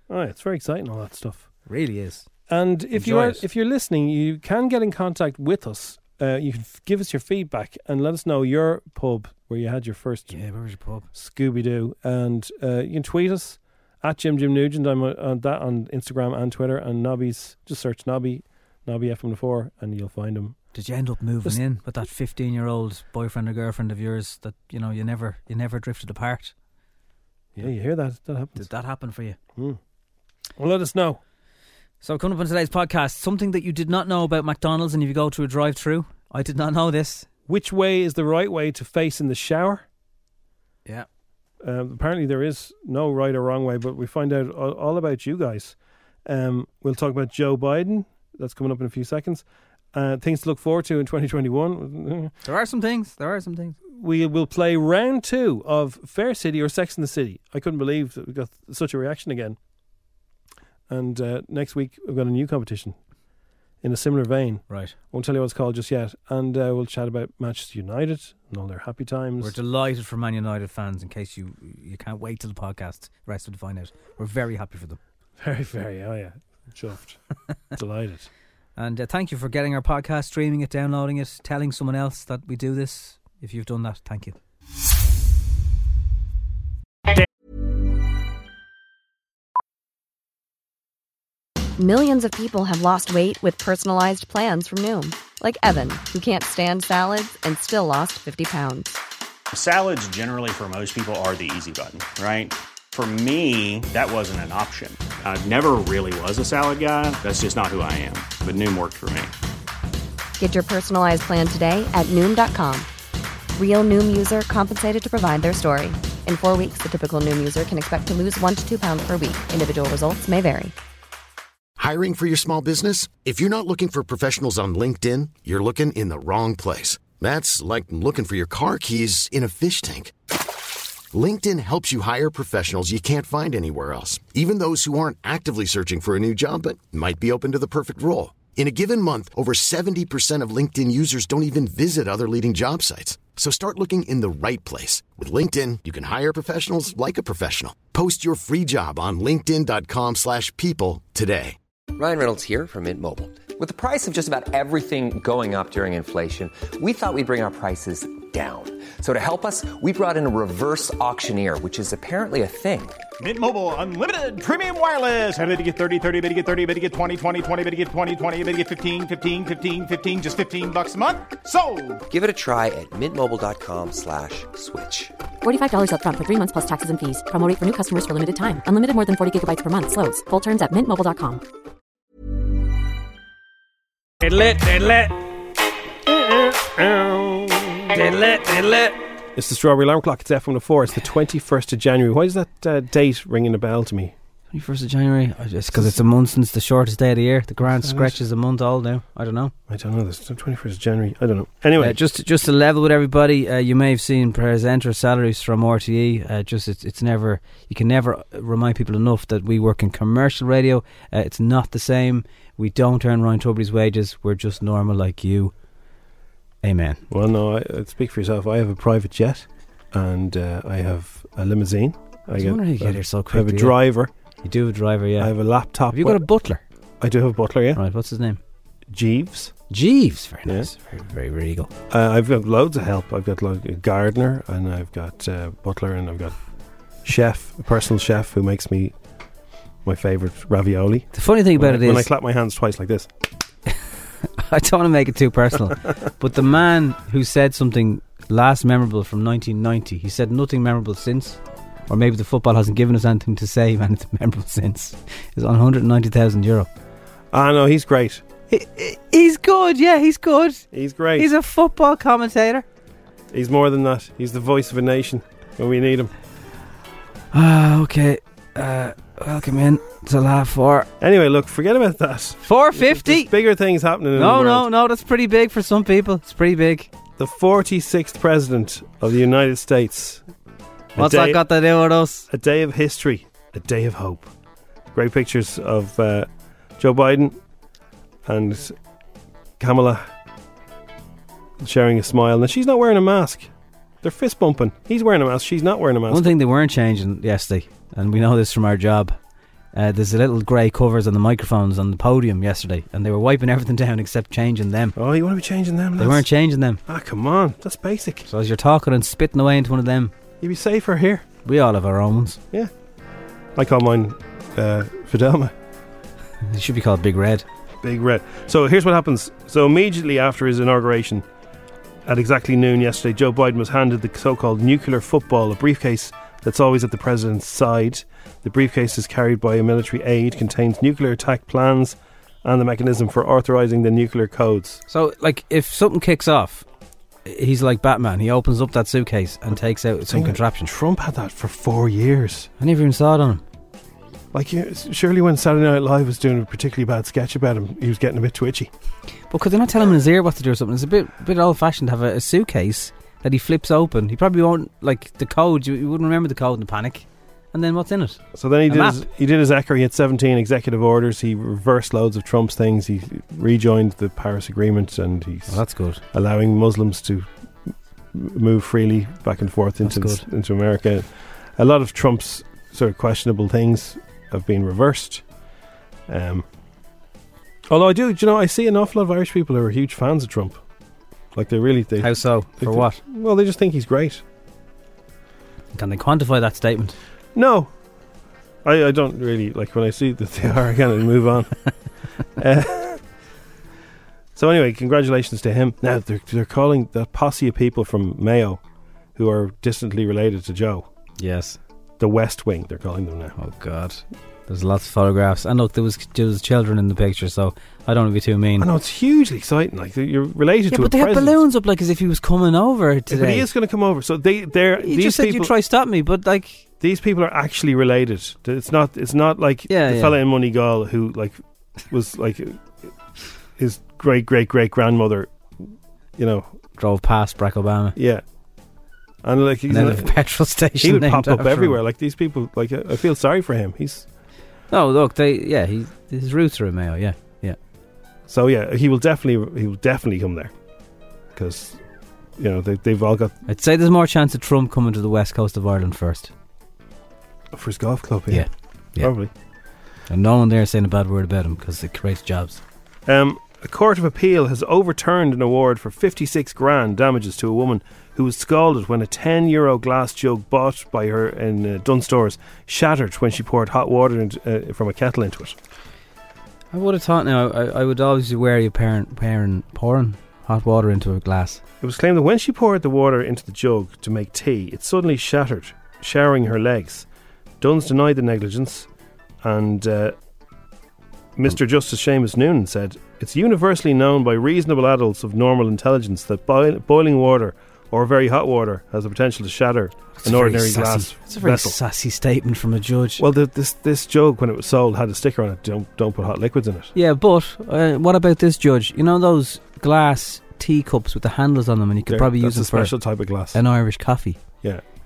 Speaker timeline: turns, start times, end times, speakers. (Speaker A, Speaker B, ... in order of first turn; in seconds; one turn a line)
Speaker A: 0.1-1.5
Speaker B: 1.7-2.3
Speaker A: 2.5-10.3
Speaker B: 2.9-3.4
Speaker B: 10.3-11.1
Speaker A: 11.1-20.6
Speaker B: 20.7-26.5
Speaker A: 27.5-28.7
Speaker B: 28.6-29.4
Speaker A: 30.6-31.2
Speaker B: 32.0-37.3
Speaker A: 37.5-39.8
Speaker A: 41.6-52.3
Speaker B: 52.4-53.8
Speaker A: 53.9-59.6
Speaker A: 60.9-63.0
Speaker A: 63.8-69.5
Speaker B: 64.7-64.9
Speaker B: 69.4-75.0
Speaker A: 75.4-77.2
Speaker A: 77.8-78.3
Speaker B: 78.8-84.4
Speaker C: 91.8-99.0
Speaker D: 99.5-109.3
Speaker C: 110.4-112.9
Speaker C: 113.5-120.7
Speaker E: 121.8-130.1
Speaker E: 131.1-151.6
Speaker F: 151.9-163.0
Speaker G: 163.2-172.0
Speaker F: 172.1-175.1
Speaker H: 175.4-181.4
Speaker B: 184.2-185.1
Speaker A: 186.0-187.9
Speaker B: 187.9-189.0
Speaker A: 189.3-194.1
Speaker B: 194.5-199.5
Speaker A: 195.7-196.0
Speaker A: 197.6-198.2
Speaker A: 199.7-202.0
Speaker B: 201.8-215.5
Speaker B: 216.6-217.0
Speaker A: 217.1-224.1
Speaker B: 222.3-223.8
Speaker B: 224.4-225.3
Speaker A: 225.2-226.2
Speaker B: 225.9-226.6
Speaker A: 227.0-227.8
Speaker B: 227.8-228.4
Speaker A: 228.9-229.5
Speaker B: 229.7-231.7
Speaker A: 231.9-236.3
Speaker A: 237.0-238.9
Speaker A: 239.8-243.1
Speaker B: 241.1-242.1
Speaker B: 243.7-256.7
Speaker A: 245.5-245.9
Speaker A: 257.3-258.2
Speaker B: 258.5-260.6
Speaker A: 260.7-261.3
Speaker B: 261.2-262.6
Speaker A: 263.3-266.1
Speaker B: 267.3-270.9
Speaker A: 271.0-274.7
Speaker B: 272.4-273.3
Speaker B: 274.1-276.9
Speaker A: 277.2-280.2
Speaker A: 280.9-281.4
Speaker B: 281.0-282.3
Speaker A: 282.3-284.3
Speaker A: 284.9-287.4
Speaker A: 288.2-288.8
Speaker A: 289.6-290.1
Speaker A: 291.6-293.5
Speaker A: 294.0-296.3
Speaker B: 296.1-299.1
Speaker B: 299.7-304.9
Speaker A: 304.9-306.3
Speaker B: 306.0-306.8
Speaker A: 306.9-308.2
Speaker B: 308.2-310.1
Speaker A: 310.4-311.2
Speaker B: 311.4-312.4
Speaker A: 313.5-315.5
Speaker B: 316.4-317.4
Speaker A: 317.8-321.2
Speaker A: 322.0-334.8
Speaker B: 334.9-336.6
Speaker B: 337.2-340.7
Speaker A: 340.1-342.5
Speaker B: 342.6-343.4
Speaker A: 344.3-348.7
Speaker B: 349.3-359.0
Speaker A: 358.3-365.6
Speaker B: 365.5-366.0
Speaker A: 366.1-367.3
Speaker A: 368.1-375.2
Speaker B: 369.8-370.2
Speaker A: 376.1-376.4
Speaker A: 377.7-380.6
Speaker A: 381.3-384.2
Speaker B: 382.0-383.0
Speaker B: 385.7-386.9
Speaker A: 387.3-387.7
Speaker A: 388.6-391.5
Speaker A: 392.4-393.0
Speaker A: 394.3-398.6
Speaker A: 399.1-400.9
Speaker B: 401.2-401.6
Speaker A: 402.0-403.3
Speaker B: 403.4-408.7
Speaker A: 408.6-411.4
Speaker B: 410.7-413.5
Speaker A: 413.1-415.5
Speaker B: 414.8-416.6
Speaker A: 416.8-422.9
Speaker B: 419.7-420.2
Speaker A: 423.6-426.6
Speaker B: 426.8-427.9
Speaker A: 427.9-428.2
Speaker A: 429.2-430.1
Speaker B: 429.7-431.8
Speaker A: 430.8-434.1
Speaker B: 434.7-437.6
Speaker A: 438.3-440.5
Speaker A: 441.3-441.8
Speaker A: 442.4-443.3
Speaker B: 443.5-446.3
Speaker A: 447.5-449.3
Speaker B: 448.3-449.1
Speaker B: 450.1-452.6
Speaker A: 453.1-465.6
Speaker B: 466.7-471.6
Speaker A: 471.8-477.1
Speaker A: 477.6-478.9
Speaker A: 479.4-480.2
Speaker A: 481.4-491.8
Speaker B: 490.1-493.2
Speaker A: 493.2-496.9
Speaker B: 496.9-503.0
Speaker A: 502.1-503.6
Speaker B: 503.5-504.4